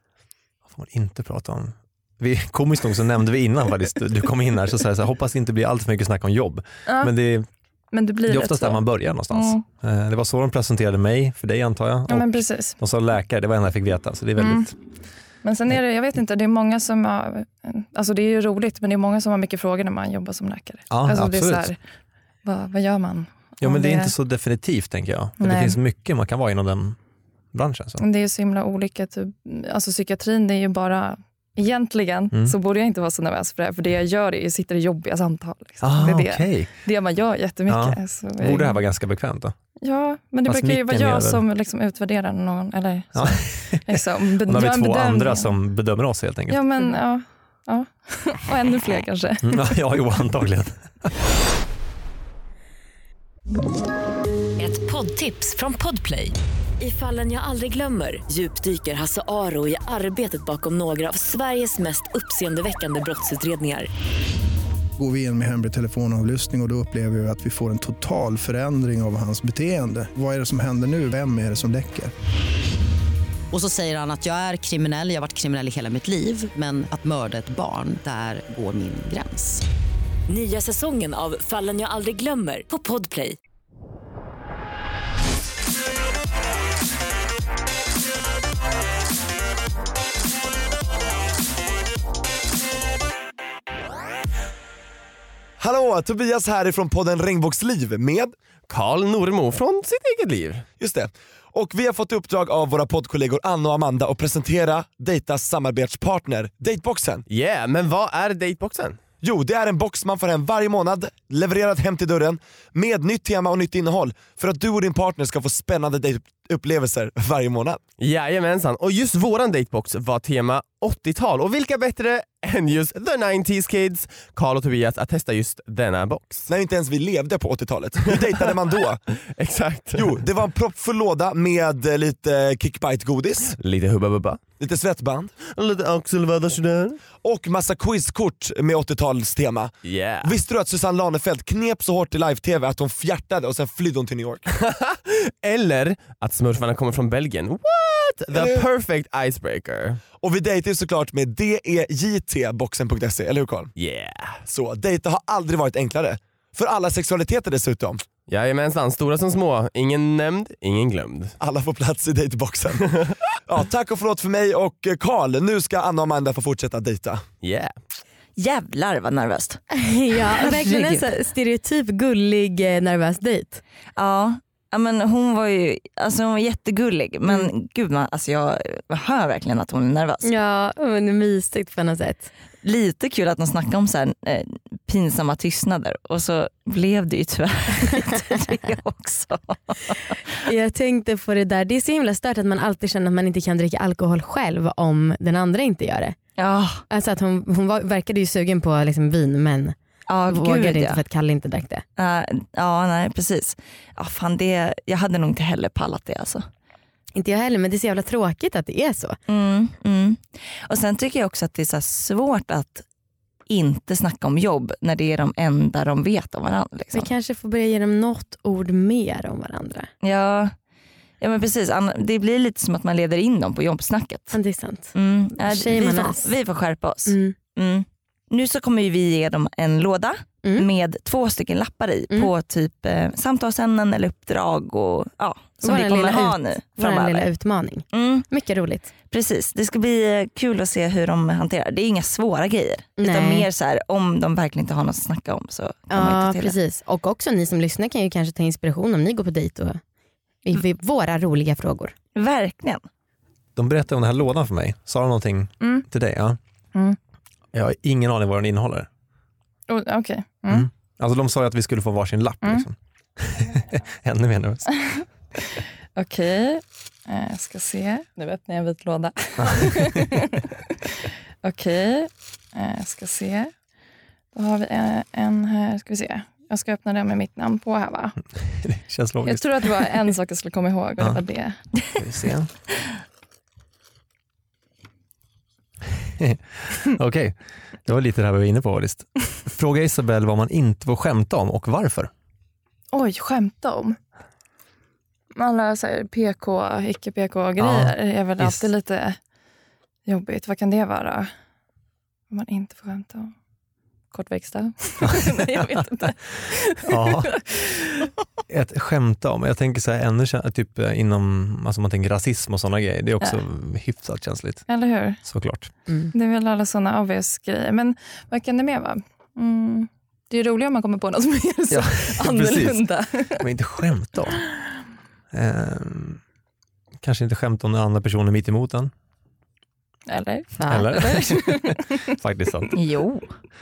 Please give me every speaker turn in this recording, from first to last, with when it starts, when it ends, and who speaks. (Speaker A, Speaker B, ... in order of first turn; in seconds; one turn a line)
Speaker A: 0.7-7.5
Speaker B: 6.8-7.1
Speaker B: 7.9-9.6
Speaker A: 8.3-14.7
Speaker B: 12.1-12.8
Speaker B: 14.4-14.7
Speaker B: 15.4-21.8
Speaker A: 20.9-21.7
Speaker B: 22.4-24.1
Speaker A: 23.6-27.0
Speaker B: 25.4-25.8
Speaker A: 27.5-28.0
Speaker B: 28.0-38.8
Speaker A: 35.8-36.7
Speaker A: 37.7-39.5
Speaker B: 39.8-45.5
Speaker A: 40.5-41.4
Speaker A: 43.1-46.6
Speaker B: 46.5-49.7
Speaker A: 49.4-51.1
Speaker C: 54.6-63.9
Speaker D: 65.0-72.1
Speaker E: 73.5-79.6
Speaker C: 80.3-83.3
Speaker F: 95.6-98.3
Speaker G: 98.7-100.6
Speaker F: 100.8-107.2
Speaker G: 107.3-109.0
Speaker F: 109.2-117.8
Speaker G: 118.0-126.5
Speaker F: 126.5-129.0
Speaker G: 128.1-128.5
Speaker G: 129.4-130.2
Speaker F: 130.0-133.5
Speaker G: 133.5-134.4
Speaker F: 134.6-135.3
Speaker G: 135.4-137.0
Speaker F: 137.2-144.4
Speaker G: 139.8-140.4
Speaker G: 144.6-150.0
Speaker F: 148.3-148.6
Speaker F: 150.2-153.7
Speaker G: 153.8-154.4
Speaker F: 154.4-158.1
Speaker G: 158.3-161.3
Speaker F: 161.4-162.8
Speaker F: 163.4-167.2
Speaker G: 167.4-167.8
Speaker H: 168.3-169.6
Speaker I: 169.7-173.6
Speaker H: 170.3-171.1
Speaker H: 174.0-180.3
Speaker I: 180.2-182.3
Speaker H: 182.6-190.2
Speaker I: 190.4-196.2
Speaker H: 196.4-196.8
Speaker I: 196.9-199.8
Speaker H: 200.1-201.0
Speaker I: 200.3-201.8
Speaker H: 202.0-206.4
Speaker I: 207.2-209.2
Speaker H: 209.3-212.8
Speaker H: 213.5-217.1
Speaker I: 216.9-219.9
Speaker H: 220.0-220.6
Speaker H: 221.2-224.4
Speaker I: 224.3-226.3
Speaker H: 224.9-237.3
Speaker I: 227.1-227.3
Speaker I: 235.6-238.9
Speaker H: 237.9-238.3
Speaker H: 239.1-246.6
Speaker I: 243.0-243.4
Speaker I: 245.9-249.8
Speaker I: 250.4-251.9
Speaker H: 252.2-252.8
Speaker A: 253.6-256.4
Speaker A: 257.5-258.9
Speaker B: 259.7-260.7
Speaker A: 260.5-264.8
Speaker B: 264.7-273.5
Speaker A: 269.4-270.1
Speaker B: 274.3-278.2
Speaker A: 278.4-279.9
Speaker B: 279.2-281.6
Speaker A: 281.9-282.5
Speaker A: 286.0-292.1
Speaker B: 292.9-294.0
Speaker B: 295.3-299.2
Speaker A: 297.6-298.6
Speaker B: 300.1-301.3
Speaker B: 302.3-303.3
Speaker B: 304.1-308.1
Speaker A: 305.0-305.8
Speaker A: 306.8-307.4
Speaker A: 308.5-314.7
Speaker B: 314.7-315.2
Speaker A: 315.2-315.7
Speaker B: 316.1-323.5
Speaker A: 321.7-322.8
Speaker A: 323.4-324.4
Speaker A: 325.3-326.2
Speaker A: 327.0-328.9
Speaker B: 330.1-332.1
Speaker A: 330.7-332.7
Speaker H: 332.7-333.3